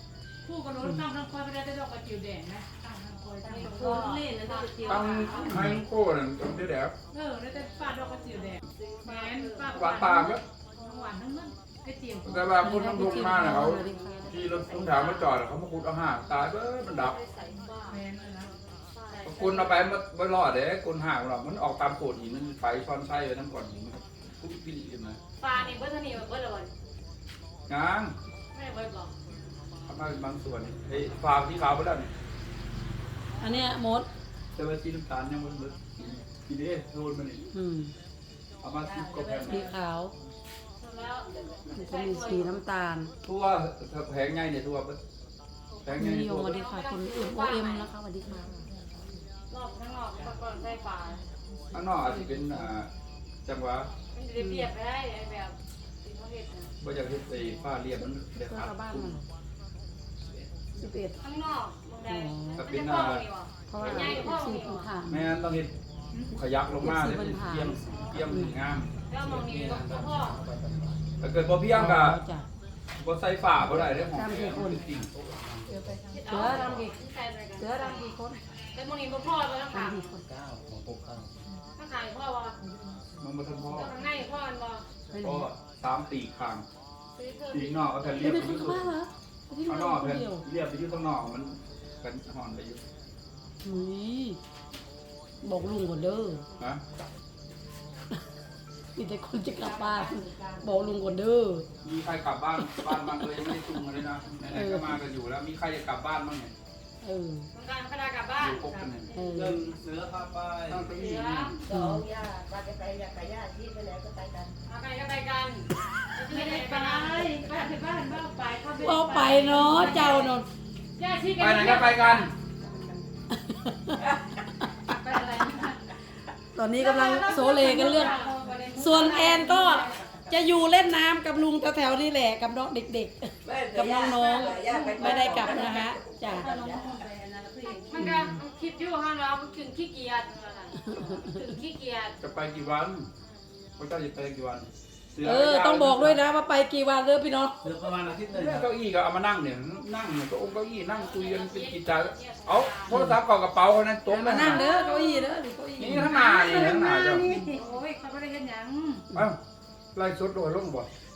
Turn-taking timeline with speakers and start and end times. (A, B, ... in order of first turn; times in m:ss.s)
0:00.4-0:04.1 A
0:03.4-0:05.6 B
0:04.1-0:05.2 C
0:04.8-0:06.9 D
0:05.4-0:05.8 E
0:07.1-0:12.6 A
0:07.7-0:08.1 C
0:08.7-0:09.9 B
0:09.7-0:10.4 D
0:12.2-0:17.2 D
0:12.6-0:14.4 E
0:13.6-0:15.3 B
0:16.9-0:18.0 B
0:17.9-0:18.5 A
0:18.9-0:19.9 B
0:19.2-0:25.2 D
0:25.4-0:26.7 B
0:27.7-0:28.1 D
0:28.5-0:29.2 B
0:29.9-0:32.1 D
0:33.4-0:34.1 E
0:34.5-0:37.4 D
0:37.5-0:37.9 E
0:38.6-0:39.7 D
0:38.8-0:39.7 C
0:39.4-0:40.1 E
0:40.8-0:42.6 B
0:41.7-0:43.1 E
0:43.2-0:45.0 D
0:45.8-0:46.6 D
0:46.0-0:48.7 E
0:46.4-0:47.9 B
0:48.2-0:49.2 A
0:49.5-0:51.2 B
0:50.2-0:52.7 A
0:51.7-0:52.9 D
0:53.4-0:53.9 D
0:54.1-0:56.7 B
0:54.4-0:54.7 E
0:56.8-0:59.2 D
0:58.4-0:59.2 E
1:00.8-1:01.2 E
1:01.2-1:04.9 B
1:02.0-1:02.7 E
1:02.6-1:03.3 D
1:03.7-1:05.3 E
1:03.8-1:04.3 D
1:05.1-1:05.7 D
1:06.3-1:08.9 D
1:06.8-1:08.6 E
1:07.9-1:08.2 B
1:09.1-1:10.4 B
1:09.2-1:11.0 F
1:11.2-1:12.2 D
1:11.7-1:12.5 E
1:13.0-1:15.1 D
1:13.7-1:14.0 F
1:14.0-1:14.8 E
1:15.1-1:15.9 F
1:15.7-1:16.5 A
1:16.1-1:18.1 B
1:16.3-1:17.0 E
1:16.5-1:16.8 F
1:17.6-1:18.4 E
1:18.7-1:20.0 B
1:19.7-1:20.2 E
1:20.3-1:21.3 F
1:21.8-1:22.6 B
1:22.6-1:23.3 A
1:23.2-1:24.0 D
1:23.7-1:24.9 B
1:25.1-1:25.5 E
1:25.2-1:26.7 D
1:27.1-1:28.6 B
1:27.5-1:28.9 D
1:28.2-1:30.4 E
1:29.7-1:32.8 D
1:33.6-1:34.4 E
1:35.4-1:36.4 E
1:39.0-1:41.7 E
1:39.6-1:41.1 A
1:41.8-1:46.5 D
1:42.7-1:43.3 E
1:44.5-1:45.0 E
1:47.0-1:47.5 E
1:47.5-1:48.8 B
1:48.4-1:49.1 D
1:49.1-1:49.6 E
1:49.3-1:51.0 F
1:50.7-1:51.6 D
1:50.9-1:51.7 B
1:51.7-1:54.5 C
1:51.7-1:52.1 E
1:54.7-1:57.3 B
1:56.3-2:00.2 A
1:58.8-2:00.5 E
1:59.7-2:00.3 B
2:01.0-2:02.3 B
2:01.4-2:02.3 D
2:03.3-2:04.0 E
2:04.9-2:05.8 A
2:06.6-2:16.5 E
2:06.7-2:10.0 A
2:06.9-2:08.3 B
2:13.4-2:17.0 C
2:14.2-2:14.5 B
2:14.2-2:18.3 A
2:17.8-2:22.2 B
2:18.0-2:18.4 E
2:20.9-2:21.2 E
2:22.2-2:23.1 D
2:23.8-2:26.2 D
2:25.2-2:27.7 E
2:27.6-2:28.7 F
2:28.3-2:34.7 D
2:30.9-2:33.0 B
2:32.9-2:33.2 E
2:34.1-2:36.2 E
2:35.8-2:37.3 D
2:36.0-2:39.1 A
2:37.3-2:37.8 B
2:39.9-2:40.9 D